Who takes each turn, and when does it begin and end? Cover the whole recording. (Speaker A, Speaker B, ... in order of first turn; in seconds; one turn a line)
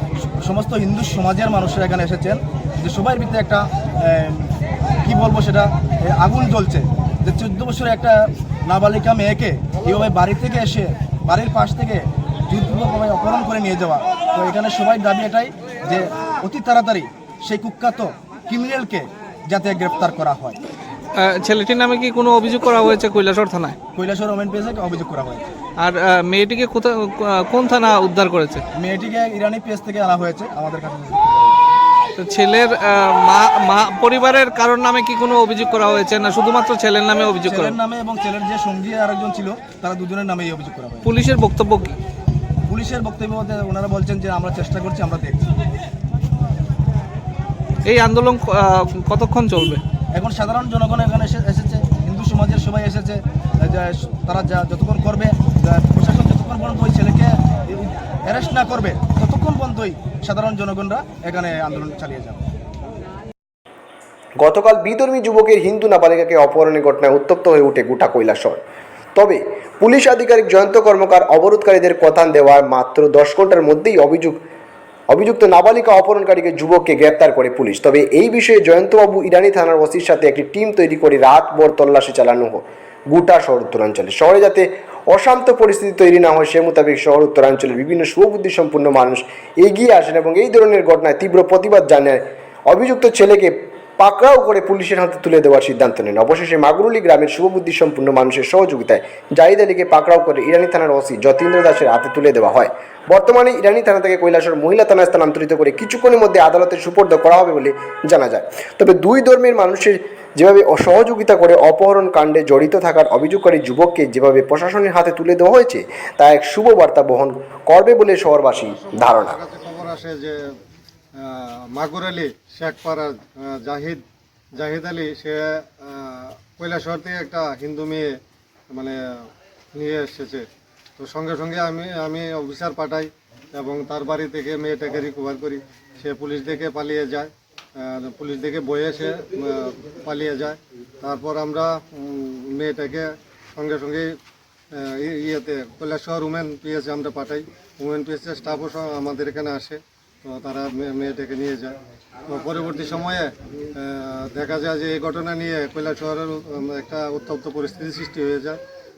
Speaker A: 0.4-20.6
Speaker B: 21.2-23.8
Speaker A: 23.9-25.5
Speaker B: 25.8-28.6
Speaker A: 28.7-31.6
Speaker B: 32.2-37.8
Speaker A: 37.5-41.1
Speaker B: 41.0-42.0
Speaker A: 42.7-45.5
Speaker B: 47.9-49.8
Speaker A: 50.1-62.5
Speaker C: 64.4-68.6
Speaker C: 69.2-74.4
Speaker C: 75.1-119.4
Speaker D: 118.8-120.5
Speaker D: 121.2-124.0
Speaker D: 124.5-128.1
Speaker D: 128.7-144.1
Speaker D: 144.7-151.8
Speaker D: 152.3-158.6